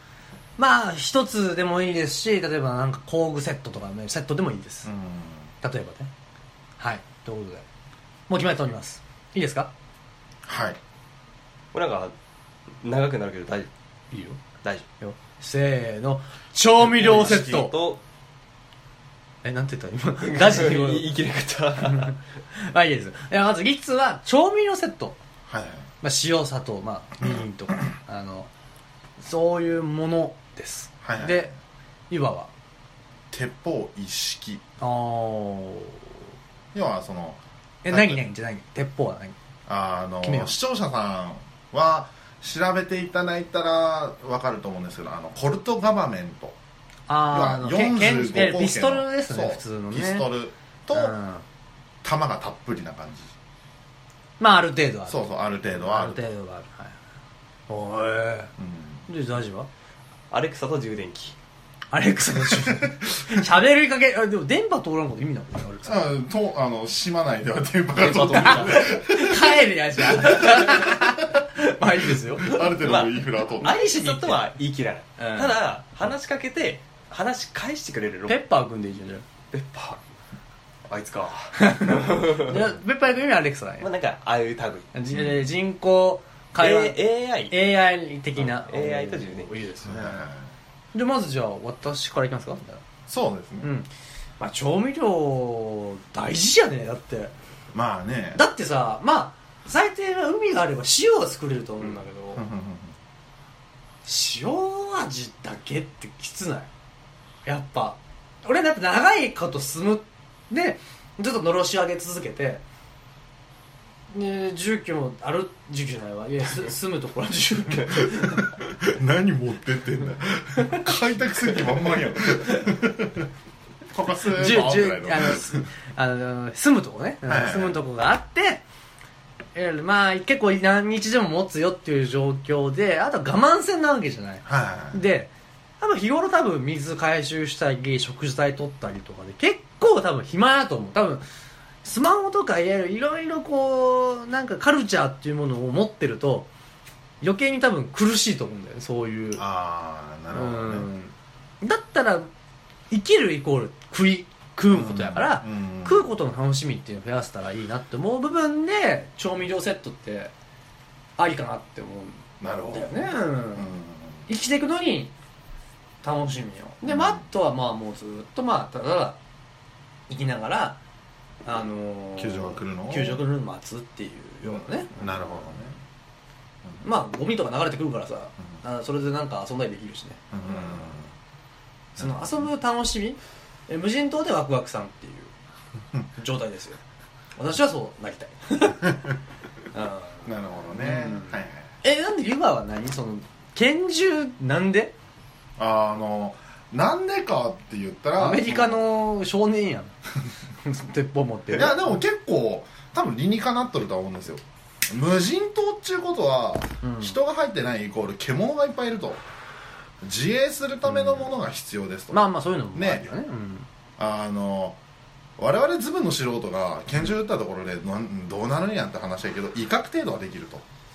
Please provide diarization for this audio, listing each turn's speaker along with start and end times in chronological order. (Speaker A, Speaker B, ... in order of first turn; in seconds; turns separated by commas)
Speaker A: 0.6-4.9, Speaker B: 4.8-5.5, Speaker A: 5.6-6.1, Speaker A: 6.8-7.6, Speaker A: 8.3-9.7, Speaker B: 10.4-10.8, Speaker C: 11.7-12.1, Speaker C: 12.8-13.7, Speaker A: 14.1-14.4, Speaker A: 15.0-17.8, Speaker C: 16.9-18.0, Speaker B: 16.9-17.7, Speaker A: 19.4-21.1, Speaker C: 20.2-22.1, Speaker A: 21.8-25.2, Speaker B: 25.5-25.9, Speaker A: 26.0-28.5, Speaker A: 29.2-31.5, Speaker B: 31.0-31.5, Speaker A: 32.1-32.5, Speaker B: 33.3-34.6, Speaker A: 34.8-36.1, Speaker B: 36.7-38.2, Speaker A: 37.8-39.3, Speaker B: 39.7-46.5, Speaker A: 40.2-40.5, Speaker A: 47.1-50.3, Speaker B: 47.3-51.1, Speaker A: 50.9-51.4, Speaker B: 52.0-53.3, Speaker A: 54.4-57.0, Speaker B: 55.1-56.2, Speaker A: 57.7-58.5, Speaker B: 58.6-59.0, Speaker A: 59.1-59.7, Speaker C: 60.3-61.3, Speaker A: 61.9-66.0, Speaker B: 62.5-63.0, Speaker B: 65.8-69.5, Speaker C: 68.0-68.9, Speaker A: 68.3-72.7, Speaker B: 70.1-71.1, Speaker B: 72.3-73.8, Speaker C: 72.7-78.4, Speaker A: 73.6-74.5, Speaker A: 75.2-75.6, Speaker A: 78.3-79.2, Speaker C: 79.5-80.0, Speaker C: 80.9-82.7, Speaker A: 81.6-83.9, Speaker C: 83.8-84.9, Speaker A: 84.9-90.2, Speaker C: 86.6-87.6, Speaker C: 88.3-89.6, Speaker B: 89.8-90.5, Speaker A: 90.9-92.8, Speaker B: 93.1-93.7, Speaker A: 93.6-97.3, Speaker B: 97.7-98.4, Speaker A: 98.3-102.4, Speaker B: 102.3-102.9, Speaker A: 104.0-106.7, Speaker A: 107.5-112.6, Speaker A: 114.1-118.5, Speaker B: 118.4-123.3, Speaker B: 123.9-125.7, Speaker A: 124.2-128.6, Speaker B: 127.2-127.8, Speaker A: 129.5-141.2, Speaker B: 134.4-135.0, Speaker A: 141.8-146.5, Speaker A: 147.2-149.4, Speaker B: 149.3-150.9, Speaker A: 150.3-152.3, Speaker A: 152.9-160.3, Speaker B: 154.7-156.1, Speaker A: 161.2-163.7, Speaker B: 162.4-164.2, Speaker A: 164.3-165.1, Speaker A: 166.0-169.2, Speaker B: 166.8-167.2, Speaker A: 170.1-170.8, Speaker A: 171.4-175.5, Speaker B: 172.2-173.2, Speaker B: 174.9-175.8, Speaker A: 176.8-180.8, Speaker B: 180.3-181.1, Speaker A: 181.9-185.3, Speaker B: 182.0-182.4, Speaker A: 186.1-186.8, Speaker A: 187.3-189.0, Speaker A: 189.7-194.9, Speaker B: 190.2-191.7, Speaker B: 195.6-198.8, Speaker A: 198.2-199.9, Speaker A: 200.6-201.9, Speaker B: 201.5-209.2, Speaker A: 206.8-207.2, Speaker B: 210.0-213.2, Speaker A: 212.1-213.7, Speaker B: 214.0-214.8, Speaker B: 215.4-220.6